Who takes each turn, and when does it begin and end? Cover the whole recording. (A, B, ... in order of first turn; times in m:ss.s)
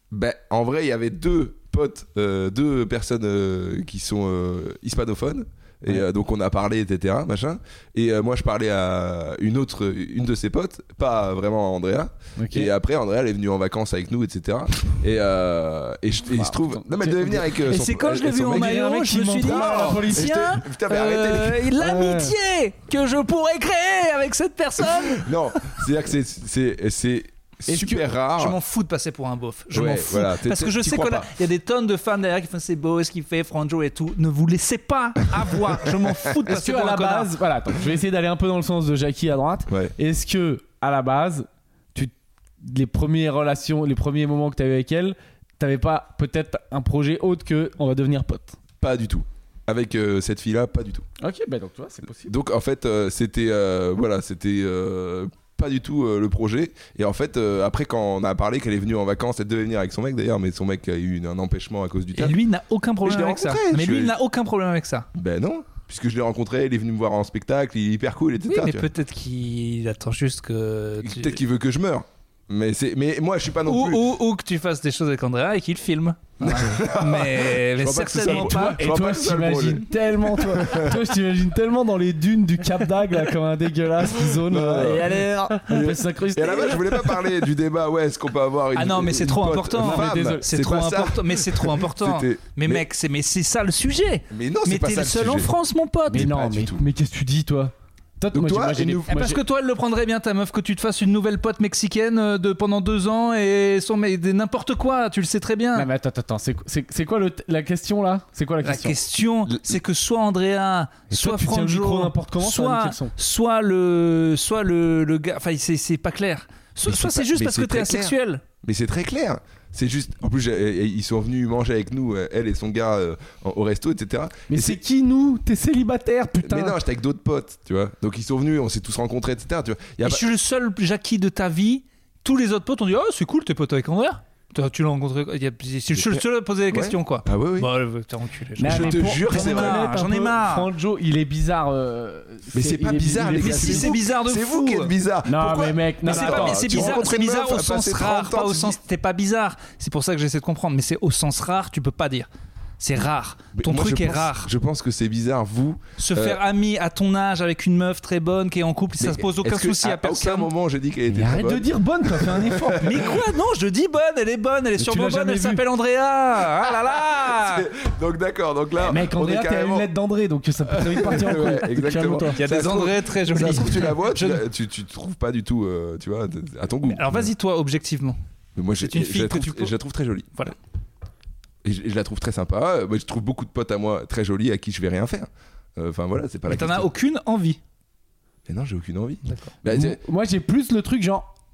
0:00.1-0:18.8 A
0:12.4-0:12.7 B
0:16.3-0:17.8 B
0:17.6-0:25.8 C
0:18.4-0:20.5 B
0:19.4-0:21.7 A
0:21.7-0:22.3 B
0:25.1-0:28.6 A
0:27.7-0:28.0 B
0:28.4-0:37.3 C
0:29.7-0:31.3 A
0:36.4-0:48.6 B
0:48.8-0:51.0 A
0:51.2-0:52.3 B
0:52.2-1:02.4 A
1:02.1-1:05.1 C
1:03.0-1:04.1 A
1:05.1-1:08.8 A
1:08.5-1:11.4 C
1:11.0-1:14.0 A
1:13.6-1:18.8 C
1:16.4-1:21.0 A
1:18.2-1:27.3 B
1:24.3-1:32.8 A
1:28.7-1:36.3 C
1:29.8-1:30.5 B
1:34.3-1:35.5 A
1:36.1-1:39.4 B
1:36.1-1:36.8 A
1:38.3-1:39.2 A
1:39.1-1:45.9 C
1:45.7-1:49.0 B
1:48.6-1:58.4 C
1:51.1-1:53.1 B
1:56.8-2:04.8 A
2:04.5-2:06.8 B
2:06.4-2:10.2 A
2:10.0-2:20.7 C
2:15.9-2:17.7 A
2:18.6-2:24.0 B
2:18.6-2:19.8 A
2:22.5-2:28.8 A
2:23.3-2:24.9 C
2:25.2-2:27.0 B
2:26.0-2:32.3 C
2:32.8-2:34.5 C
2:33.5-2:36.4 A
2:36.0-2:40.5 C
2:39.0-2:43.2 A
2:41.1-2:43.2 B
2:42.8-2:47.7 C
2:44.8-2:45.6 B
2:46.6-2:49.9 A
2:48.8-2:52.4 B
2:50.7-2:57.3 A
2:52.3-2:54.4 C
2:56.8-2:58.2 C
2:58.6-3:00.4 A
2:58.8-2:59.7 C
3:01.6-3:06.9 A
3:06.5-3:07.6 C
3:08.5-3:10.0 A
3:09.2-3:09.5 C
3:09.7-3:11.3 B